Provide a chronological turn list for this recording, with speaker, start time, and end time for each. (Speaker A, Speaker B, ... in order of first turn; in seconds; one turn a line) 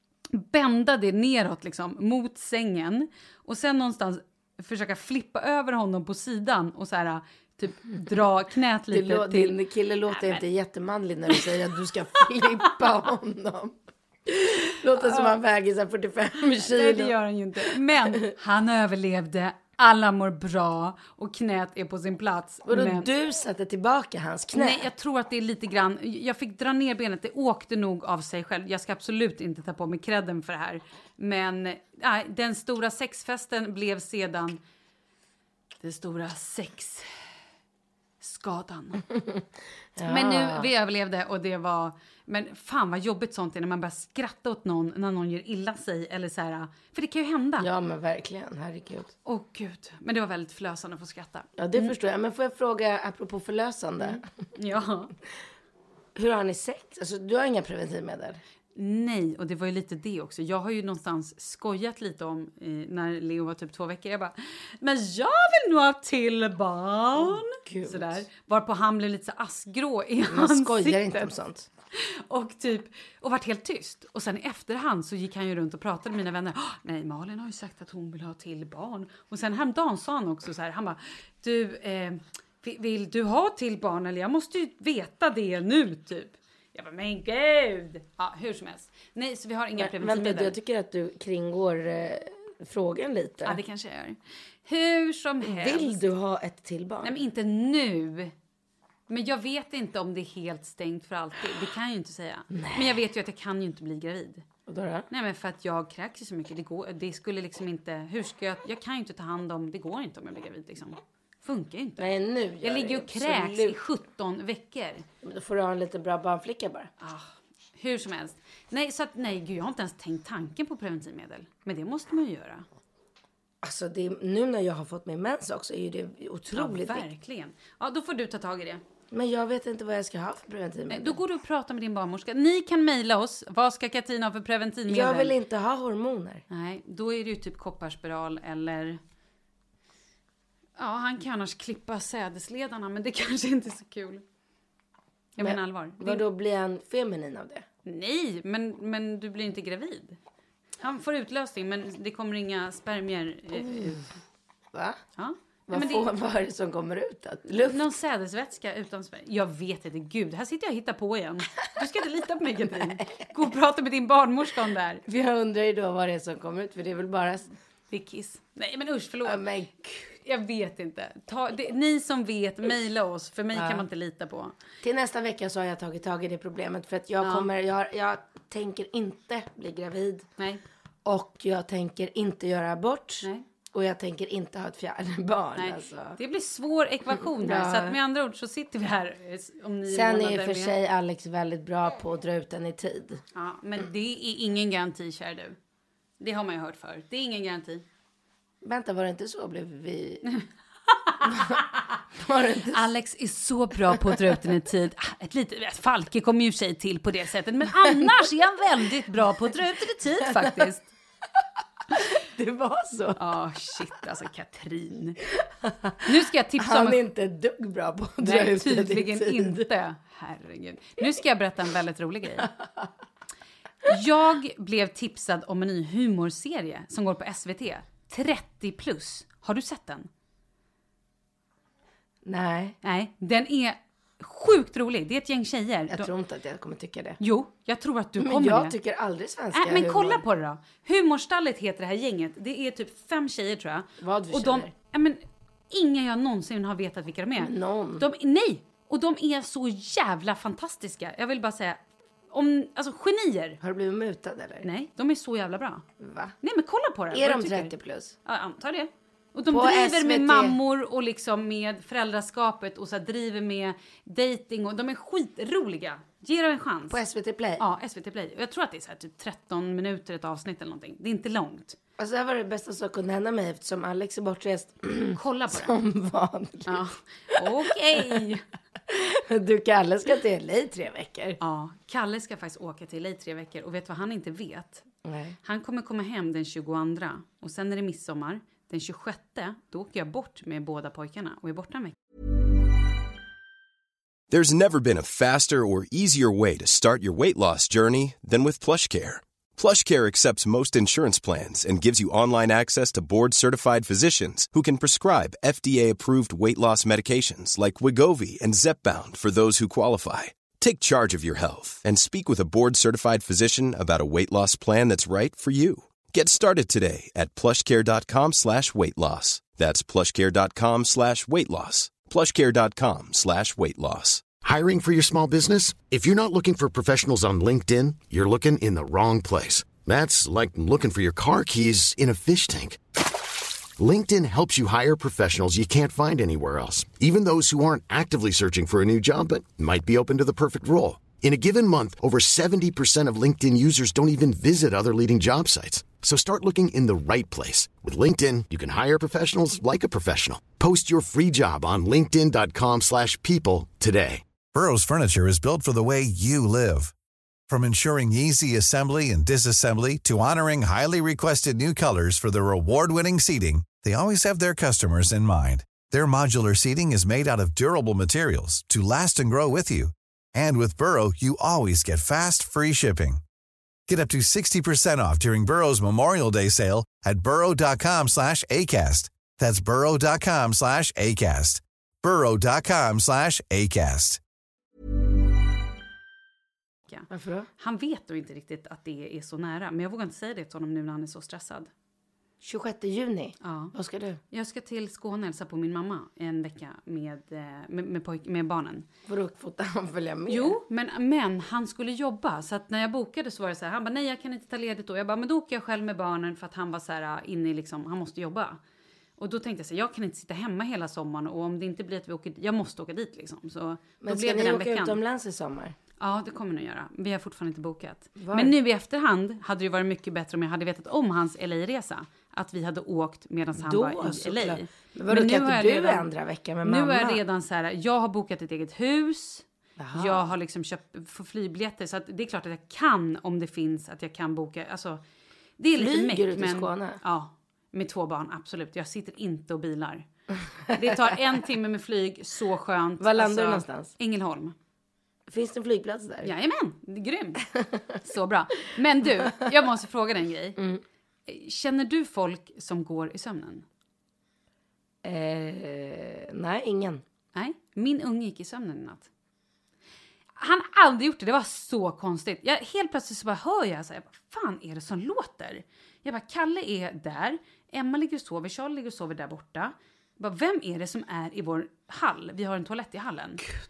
Speaker A: 0.3-9.6
Speaker B: 8.9-13.7
Speaker A: 10.1-10.4
Speaker B: 14.3-17.1
Speaker A: 14.9-15.3
Speaker A: 16.6-23.1
Speaker B: 22.7-24.9
Speaker A: 24.5-34.6
Speaker A: 35.8-37.1
Speaker A: 38.2-39.0
Speaker B: 40.0-40.7
Speaker A: 40.0-47.7
Speaker B: 47.6-49.1
Speaker A: 49.2-51.9
Speaker B: 51.6-54.2
Speaker A: 54.0-55.1
Speaker B: 56.1-58.4
Speaker A: 58.7-71.3
Speaker B: 67.2-68.2
Speaker B: 70.3-71.7
Speaker A: 71.9-90.5
Speaker B: 89.8-93.6
Speaker A: 93.4-96.0
Speaker B: 95.4-97.1
Speaker A: 97.0-98.3
Speaker A: 99.1-104.4
Speaker B: 102.5-103.0
Speaker B: 104.7-105.0
Speaker A: 105.1-112.0
Speaker B: 112.0-113.8
Speaker A: 112.6-115.0
Speaker B: 115.2-116.9
Speaker A: 117.0-122.7
Speaker B: 123.6-127.0
Speaker A: 126.5-128.8
Speaker B: 129.1-131.2
Speaker A: 130.9-135.3
Speaker B: 134.9-136.4
Speaker A: 136.5-139.0
Speaker A: 140.8-144.2
Speaker A: 145.3-146.2
Speaker B: 145.4-147.6
Speaker A: 147.8-150.2
Speaker A: 150.8-154.0
Speaker B: 153.5-154.0
Speaker B: 154.7-155.0
Speaker A: 155.2-156.1
Speaker B: 155.7-157.9
Speaker A: 157.5-165.0
Speaker B: 162.8-163.2
Speaker B: 165.1-167.5
Speaker A: 167.9-174.5
Speaker B: 169.2-169.7
Speaker B: 173.5-173.8
Speaker B: 174.8-180.2
Speaker A: 177.2-177.5
Speaker B: 181.0-186.2
Speaker A: 185.6-190.7
Speaker B: 187.3-188.0
Speaker B: 189.9-193.2
Speaker A: 193.3-195.6
Speaker A: 196.2-197.8
Speaker B: 198.6-200.2
Speaker A: 201.1-201.6
Speaker B: 201.3-201.6
Speaker B: 202.2-202.9
Speaker A: 202.7-210.9
Speaker B: 210.3-210.6
Speaker B: 211.9-213.2
Speaker A: 213.2-215.2
Speaker B: 215.6-216.0
Speaker A: 216.0-217.0
Speaker B: 216.6-219.6
Speaker A: 218.2-222.5
Speaker A: 223.8-230.1
Speaker B: 232.2-232.8
Speaker A: 232.8-236.1
Speaker B: 235.9-237.2
Speaker A: 237.2-238.7
Speaker B: 238.2-240.2
Speaker A: 239.5-253.6
Speaker B: 244.0-244.7
Speaker B: 247.4-248.1
Speaker B: 253.6-254.7
Speaker A: 254.6-255.8
Speaker B: 256.0-256.3
Speaker A: 256.4-257.7
Speaker B: 257.1-258.1
Speaker A: 258.2-267.0
Speaker B: 259.5-260.6
Speaker B: 266.9-267.6
Speaker A: 267.6-271.8
Speaker B: 272.0-276.8
Speaker A: 275.1-275.7
Speaker A: 276.6-278.4
Speaker B: 278.9-281.4
Speaker A: 281.4-284.9
Speaker B: 285.0-285.4
Speaker A: 285.4-291.9
Speaker C: 294.3-324.3
Speaker D: 324.4-332.8
Speaker D: 333.8-354.2
Speaker E: 354.5-356.9
Speaker E: 357.5-373.2
Speaker E: 373.9-384.2
Speaker B: 387.1-387.5
Speaker A: 387.6-391.7
Speaker B: 392.4-394.2
Speaker A: 393.4-393.7
Speaker A: 394.3-398.9
Speaker B: 399.1-400.6
Speaker A: 400.3-408.6
Speaker A: 409.2-415.0
Speaker B: 414.0-415.8
Speaker A: 416.0-426.1
Speaker B: 418.2-418.5
Speaker B: 423.6-427.2
Speaker A: 426.6-435.0
Speaker B: 429.8-430.3
Speaker A: 435.6-440.1
Speaker B: 435.8-437.0
Speaker B: 440.7-441.1
Speaker A: 440.7-444.5
Speaker B: 443.0-443.9
Speaker B: 445.3-446.3
Speaker A: 446.2-447.4
Speaker A: 448.0-450.6
Speaker A: 451.3-453.6
Speaker B: 455.0-457.0
Speaker A: 457.3-459.1
Speaker A: 460.4-473.4